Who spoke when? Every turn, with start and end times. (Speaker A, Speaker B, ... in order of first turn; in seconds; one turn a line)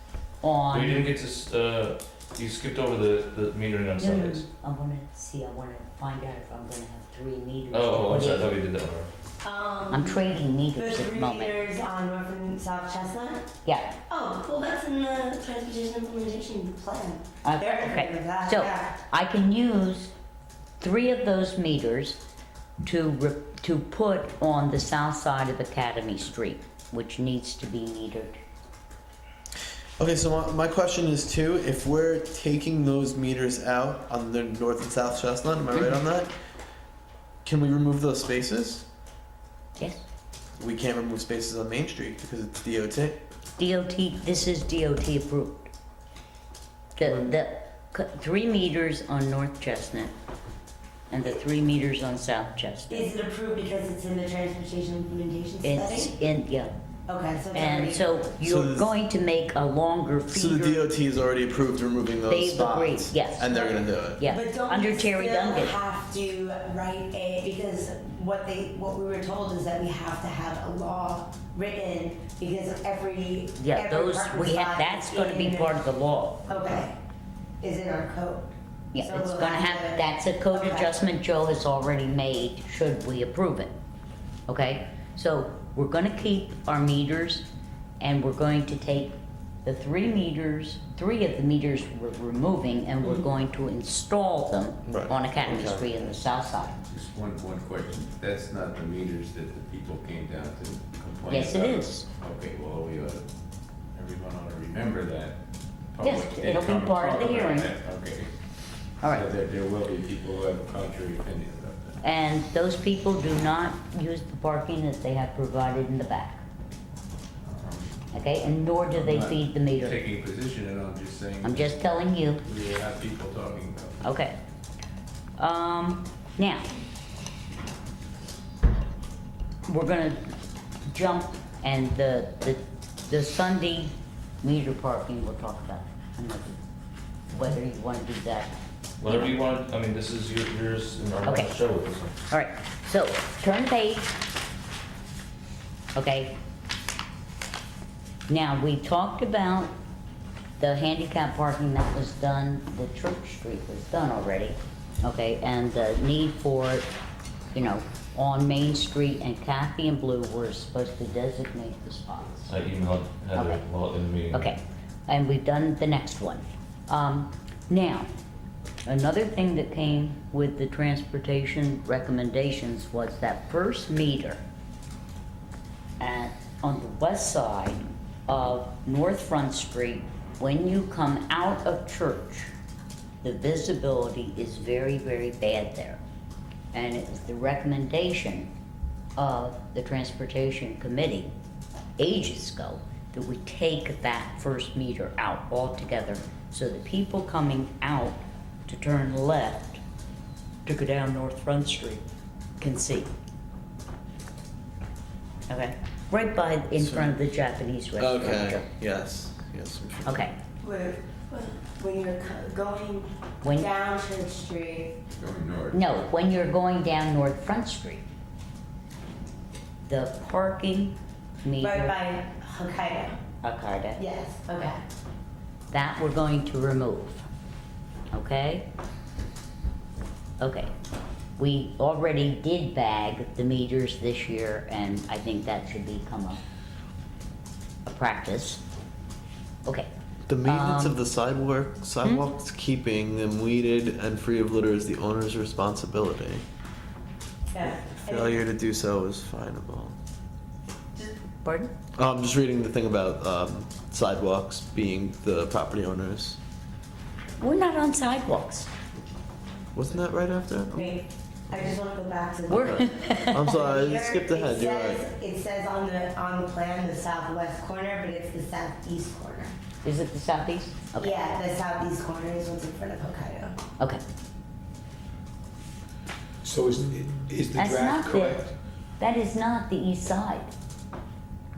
Speaker A: 0.4-1.1
Speaker B: 0.7-4.5
Speaker A: 4.0-8.5
Speaker B: 7.7-9.1
Speaker C: 9.4-13.5
Speaker A: 9.9-11.6
Speaker A: 13.7-14.0
Speaker C: 14.1-19.0
Speaker A: 17.4-20.1
Speaker A: 20.8-22.2
Speaker A: 22.8-28.4
Speaker D: 30.0-36.3
Speaker D: 37.5-38.9
Speaker A: 39.8-40.0
Speaker D: 40.6-43.2
Speaker A: 43.6-45.7
Speaker A: 47.0-50.1
Speaker A: 51.1-53.1
Speaker C: 52.9-56.1
Speaker A: 55.6-56.7
Speaker C: 57.1-58.2
Speaker A: 57.5-60.8
Speaker D: 58.4-58.9
Speaker D: 60.3-64.2
Speaker A: 62.3-63.6
Speaker C: 63.5-75.8
Speaker A: 64.2-65.8
Speaker A: 73.6-76.5
Speaker C: 76.5-77.0
Speaker C: 77.6-81.0
Speaker A: 78.9-83.7
Speaker A: 84.5-87.5
Speaker A: 88.0-96.8
Speaker D: 94.9-95.9
Speaker E: 96.9-103.3
Speaker A: 101.3-102.1
Speaker E: 103.9-105.4
Speaker E: 105.9-108.3
Speaker A: 106.0-107.7
Speaker E: 109.1-112.0
Speaker A: 112.0-116.4
Speaker E: 117.4-117.9
Speaker A: 118.1-120.0
Speaker E: 119.0-121.8
Speaker A: 121.4-122.4
Speaker E: 122.4-124.0
Speaker A: 124.0-124.4
Speaker A: 125.4-126.7
Speaker A: 129.7-130.3
Speaker A: 130.9-136.6
Speaker A: 137.3-138.5
Speaker B: 139.0-142.2
Speaker A: 139.1-139.3
Speaker A: 141.2-141.5
Speaker A: 142.3-144.1
Speaker A: 145.9-146.4
Speaker A: 148.3-149.7
Speaker A: 150.6-156.9
Speaker A: 157.5-162.6
Speaker B: 162.5-164.5
Speaker A: 163.3-163.6
Speaker A: 164.3-168.1
Speaker A: 168.9-174.4
Speaker A: 176.0-182.5
Speaker A: 183.2-186.0
Speaker A: 186.7-188.5
Speaker A: 189.2-191.3
Speaker A: 192.0-199.8
Speaker A: 200.7-202.0
Speaker A: 202.6-203.1
Speaker A: 205.5-208.7
Speaker D: 206.8-207.2
Speaker D: 208.0-210.3
Speaker A: 210.1-210.4
Speaker C: 210.6-215.0
Speaker A: 213.4-213.7
Speaker E: 215.1-216.0
Speaker A: 215.7-218.1
Speaker A: 219.9-222.0
Speaker C: 221.6-223.2
Speaker A: 223.4-224.0
Speaker C: 224.0-224.8
Speaker A: 225.7-227.3
Speaker A: 228.1-228.7
Speaker A: 230.4-230.7
Speaker A: 231.4-236.4
Speaker A: 237.8-238.6
Speaker D: 240.3-246.4
Speaker A: 240.4-241.0
Speaker C: 247.5-248.3
Speaker D: 248.0-249.9
Speaker A: 251.4-251.7
Speaker D: 252.0-256.4
Speaker A: 257.4-258.7
Speaker D: 259.7-260.9
Speaker C: 260.7-269.5
Speaker A: 262.5-263.5
Speaker D: 262.5-265.0
Speaker A: 269.8-271.2
Speaker C: 271.0-273.6
Speaker F: 276.4-278.5
Speaker A: 277.6-278.4
Speaker A: 279.0-280.5